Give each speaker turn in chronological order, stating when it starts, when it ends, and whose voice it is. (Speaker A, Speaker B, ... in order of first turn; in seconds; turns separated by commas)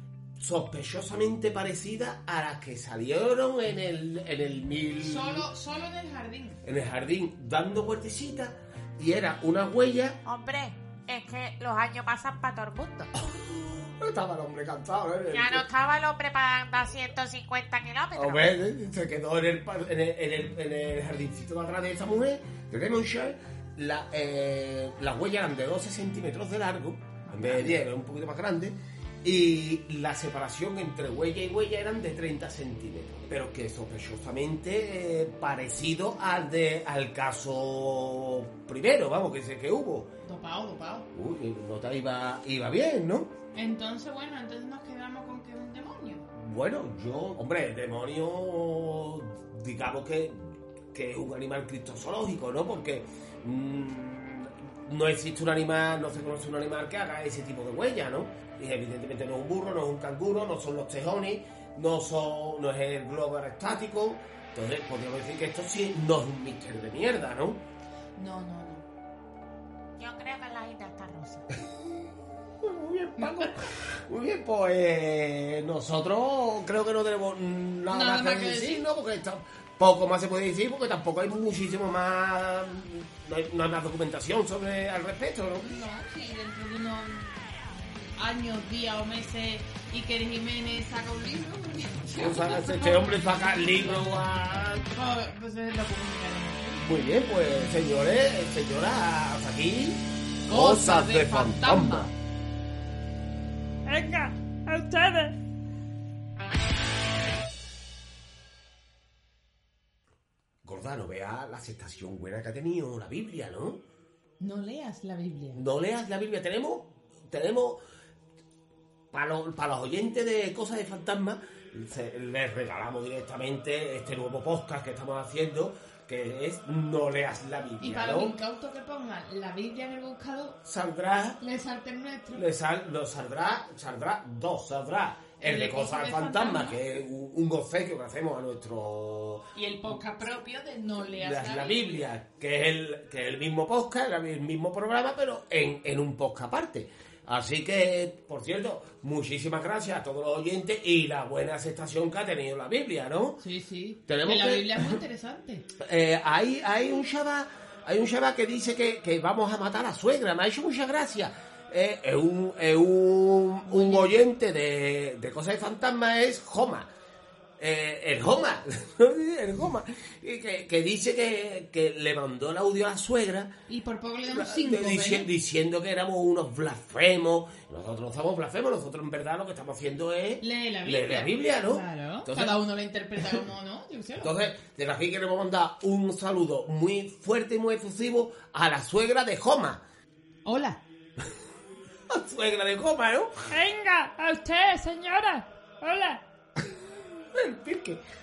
Speaker A: 0.4-5.5, Speaker B: 5.0-6.6, Speaker A: 6.6-10.2, Speaker C: 10.2-13.1, Speaker A: 13.2-15.7, Speaker C: 15.3-18.6, Speaker A: 18.2-40.1, Speaker B: 27.2-27.8, Speaker B: 40.2-41.1, Speaker A: 41.1-43.3, Speaker B: 43.5-46.3, Speaker A: 46.3-67.6, Speaker B: 68.2-68.8, Speaker C: 70.0-71.4, Speaker A: 72.6-85.7, Speaker B: 73.2-73.5, Speaker B: 77.9-78.8, Speaker B: 85.6-87.4, Speaker B: 88.2-94.1, Speaker A: 92.2-94.9, Speaker B: 94.9-96.9, Speaker A: 96.8-102.1, Speaker B: 100.5-102.1, Speaker D: 103.9-105.4, Speaker A: 110.6-113.8, Speaker B: 114.4-115.6, Speaker A: 115.5-117.8, Speaker A: 119.1-128.3, Speaker B: 127.8-130.6, Speaker A: 130.6-131.4, Speaker B: 131.4-132.4, Speaker A: 132.3-139.5, Speaker B: 135.4-136.8, Speaker B: 139.6-142.1, Speaker A: 141.2-153.4, Speaker B: 153.4-155.7, Speaker A: 154.1-155.0, Speaker A: 155.8-166.9, Speaker B: 163.7-164.2, Speaker A: 167.6-173.5, Speaker B: 173.7-175.3, Speaker A: 174.3-182.6, Speaker B: 180.4-184.3, Speaker A: 184.2-189.8, Speaker B: 190.4-190.8, Speaker A: 192.1-193.4, Speaker D: 193.5-196.2, Speaker A: 197.3-198.0